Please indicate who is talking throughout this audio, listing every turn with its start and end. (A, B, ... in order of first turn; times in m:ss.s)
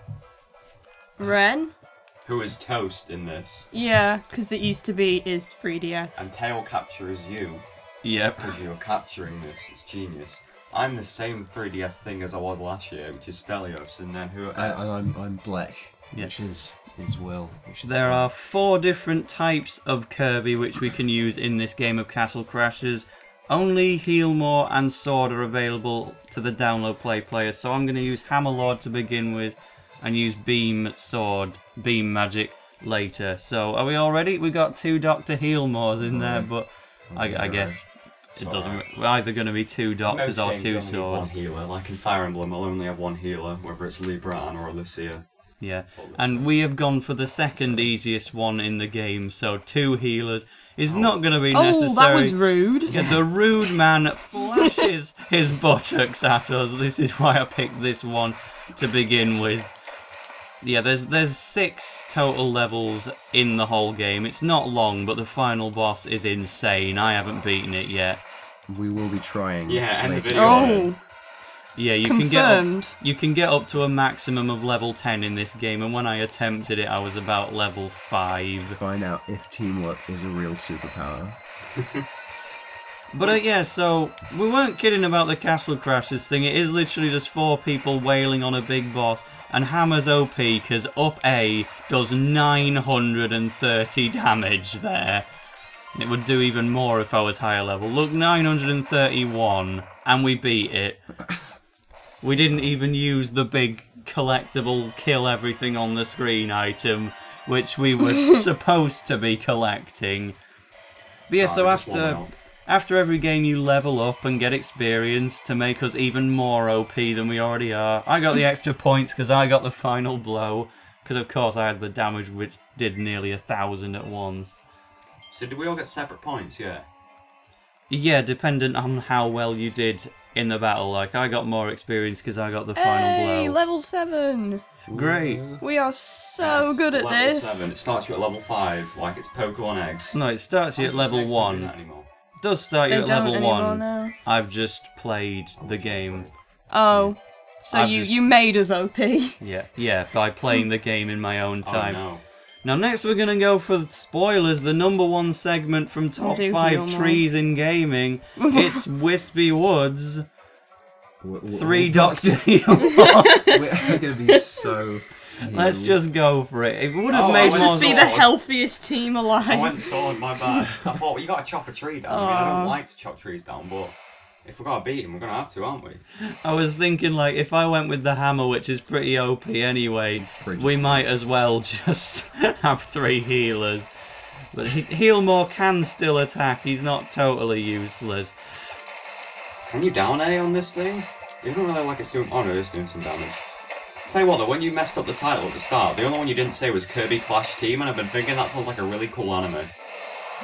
0:01.2-0:01.7 A
0:02.2-0:03.7 B
0:03.7-0:06.3 A
0:06.2-0:07.6 B
0:08.0-0:08.5 C
0:08.4-0:14.9 B
0:14.5-0:18.3 D
0:17.8-0:41.3 C
0:36.0-0:37.8 D
0:38.4-0:38.8 B
0:40.1-0:45.3 B
0:45.6-0:59.7 C
0:45.9-0:46.5 B
0:50.9-0:51.2 B
0:51.5-0:52.9 A
1:00.6-1:08.2 C
1:08.7-1:10.8 D
1:09.7-1:10.9 B
1:10.3-1:11.0 A
1:11.8-1:18.8 C
1:12.1-1:12.9 A
1:18.8-1:21.4 D
1:23.1-1:35.3 C
1:35.9-1:41.0 C
1:42.2-1:50.4 C
1:51.3-2:04.6 C
1:51.4-1:52.3 B
2:05.3-2:06.9 B
2:07.9-2:13.6 C
2:12.8-2:14.6 A
2:14.9-2:15.6 D
2:14.9-2:15.4 C
2:15.6-2:17.7 A
2:16.4-2:20.2 B
2:20.1-2:21.7 C
2:20.8-2:22.1 B
2:22.4-2:26.3 C
2:22.9-2:24.2 A
2:25.6-2:26.4 B
2:26.7-2:29.4 A
2:27.7-2:28.1 C
2:29.4-2:32.1 C
2:31.6-2:32.2 B
2:32.6-2:40.2 C
2:36.3-2:37.2 A
2:38.4-2:38.8 A
2:41.2-2:42.5 D
2:41.5-2:43.5 C
2:43.1-2:43.6 A
2:43.4-2:46.0 D
2:44.3-2:44.6 A
2:45.5-2:48.1 C
2:47.1-2:48.4 B
2:47.4-2:50.6 A
2:49.5-2:56.0 B
2:52.1-2:52.8 A
2:56.4-3:03.9 C
3:00.2-3:01.1 D
3:04.5-3:08.4 C
3:09.7-3:13.4 B
3:14.0-3:19.7 B